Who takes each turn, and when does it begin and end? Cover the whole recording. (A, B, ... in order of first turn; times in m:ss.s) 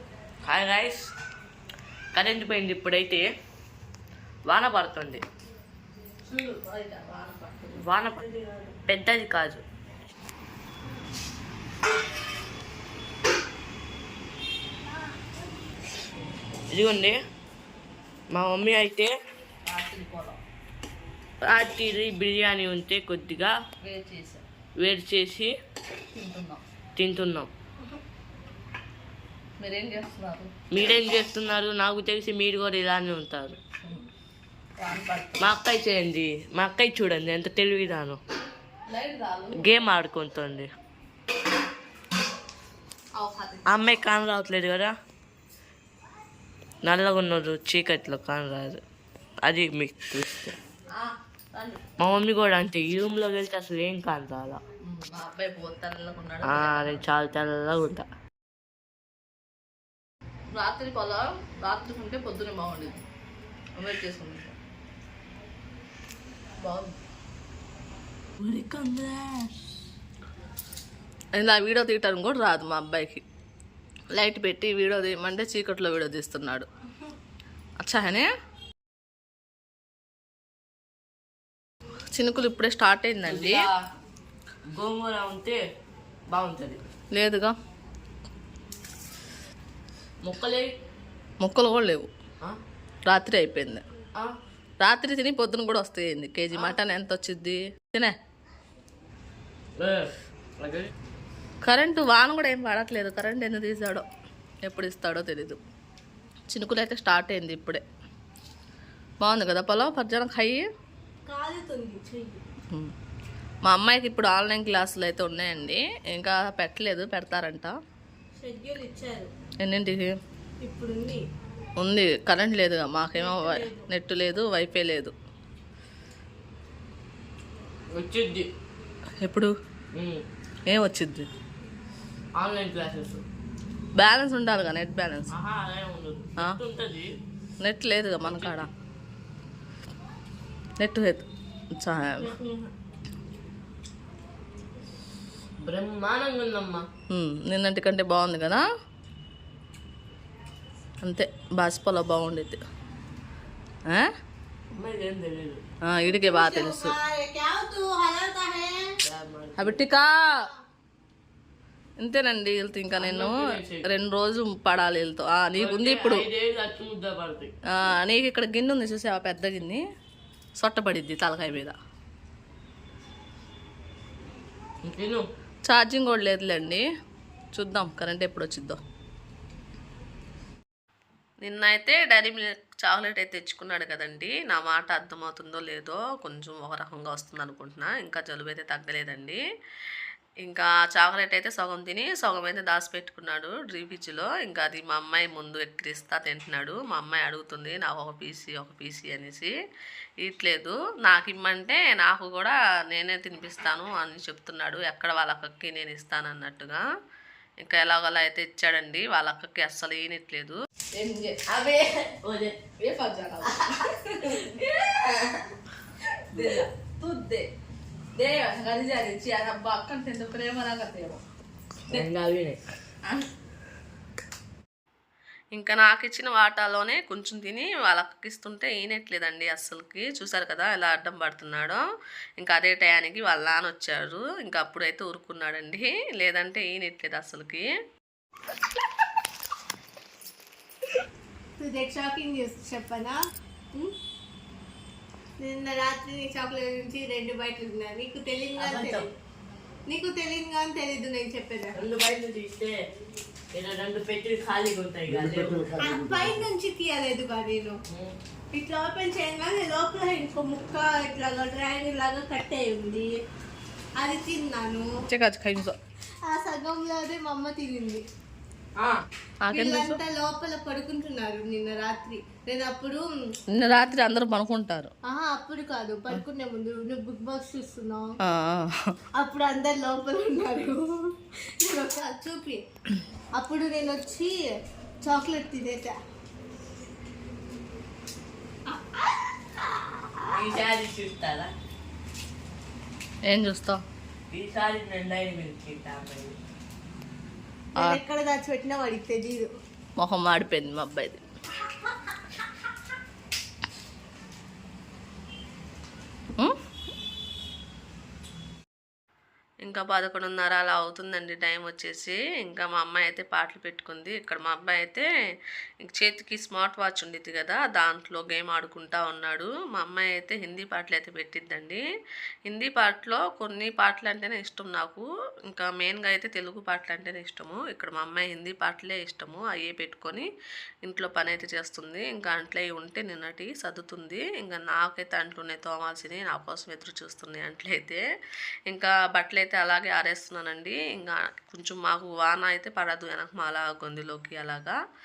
0:00.4-0:01.1 A
0:02.1-0:03.3 A
0:04.5-0:05.2 A
0:06.3-0:07.8 B
0:07.8-0:09.6 A
0:16.7-0:17.2 A
0:18.3-0:19.2 A
0:19.6-0:20.4 B
0:21.4-0:23.5 A
0:23.8-0:24.4 B
0:24.8-0:25.5 A
0:26.1-0:26.6 B
0:27.0-0:27.5 A
0:29.6-0:30.5 B
0:30.7-0:33.6 A
0:34.8-0:35.5 B
0:35.4-0:38.2 A
0:38.9-0:39.7 B
0:39.6-0:40.7 A
0:43.2-0:43.9 B
0:43.7-0:44.9 A
0:46.8-0:48.8 A
0:49.4-0:50.6 A
0:50.9-0:51.8 B
0:52.0-0:54.6 A
0:54.8-0:57.1 B
0:56.4-0:58.1 A
1:00.5-1:03.0 B
1:03.8-1:04.6 B
1:06.6-1:07.0 B
1:08.4-1:09.5 A
1:11.4-1:13.2 B
1:14.1-1:16.7 B
1:17.8-1:18.3 B
1:22.1-1:23.6 B
1:23.3-1:23.8 A
1:24.7-1:25.6 A
1:26.3-1:26.8 A
1:27.1-1:27.5 B
1:30.2-1:30.7 A
1:31.4-1:32.1 B
1:33.1-1:33.8 B
1:34.8-1:38.1 B
1:39.8-1:40.9 A
1:41.6-1:44.0 B
1:44.6-1:45.6 B
1:46.5-1:47.8 B
1:49.2-1:50.6 B
1:51.3-1:52.4 C
1:53.7-1:57.8 B
1:58.4-1:59.3 C
1:59.6-2:00.1 B
2:00.6-2:01.2 C
2:01.8-2:05.1 B
2:03.6-2:03.8 C
2:07.9-2:08.5 A
2:09.2-2:09.5 B
2:10.0-2:10.2 A
2:10.7-2:11.3 B
2:12.4-2:13.2 A
2:14.0-2:15.3 B
2:15.3-2:17.1 A
2:17.6-2:18.7 B
2:18.2-2:18.6 A
2:20.8-2:22.4 B
2:25.6-2:26.9 A
2:27.1-2:28.6 B
2:31.0-2:32.6 B
2:34.8-2:35.6 A
2:35.8-2:37.0 B
2:36.1-2:38.9 C
2:39.0-2:39.8 A
2:39.6-2:40.3 B
2:42.0-2:46.3 B
2:42.9-2:43.8 A
2:45.6-2:47.5 A
2:47.7-2:49.8 B
2:50.6-2:51.8 B
2:54.9-2:55.3 A
2:55.7-2:56.8 B
2:57.5-2:58.8 B
3:01.4-3:09.4 B
3:10.4-3:19.5 B
3:20.2-3:26.8 B
3:27.6-3:31.9 B
3:32.2-3:32.6 A
3:32.8-3:35.4 B
3:36.2-3:37.5 B
3:38.2-3:41.2 B
3:41.9-3:42.6 A
3:45.6-3:51.8 B
3:52.4-3:57.6 B
4:01.6-4:03.2 C
4:05.4-4:09.1 C
4:08.6-4:09.1 A
4:09.9-4:11.7 C
4:11.8-4:12.8 A
4:13.5-4:16.3 A
4:15.8-4:17.8 C
4:18.5-4:23.1 C
4:24.0-4:24.9 C
4:25.1-4:25.8 B
4:26.3-4:28.0 C
4:29.4-4:30.0 B
4:29.5-4:33.0 C
4:33.6-4:34.9 B
4:35.1-4:38.0 C
4:38.3-4:39.0 B
4:39.2-4:42.6 C
4:43.4-4:44.5 C
4:45.0-4:46.0 C
4:49.6-4:50.2 C
4:50.3-4:51.5 A
4:53.3-4:53.8 B
4:54.3-4:56.4 A
4:57.8-4:59.5 C
5:00.0-5:01.2 B
5:09.6-5:15.1 B
5:15.8-5:21.8 B
5:22.5-5:30.3 B
5:30.8-5:38.0 B
5:38.7-5:44.8 B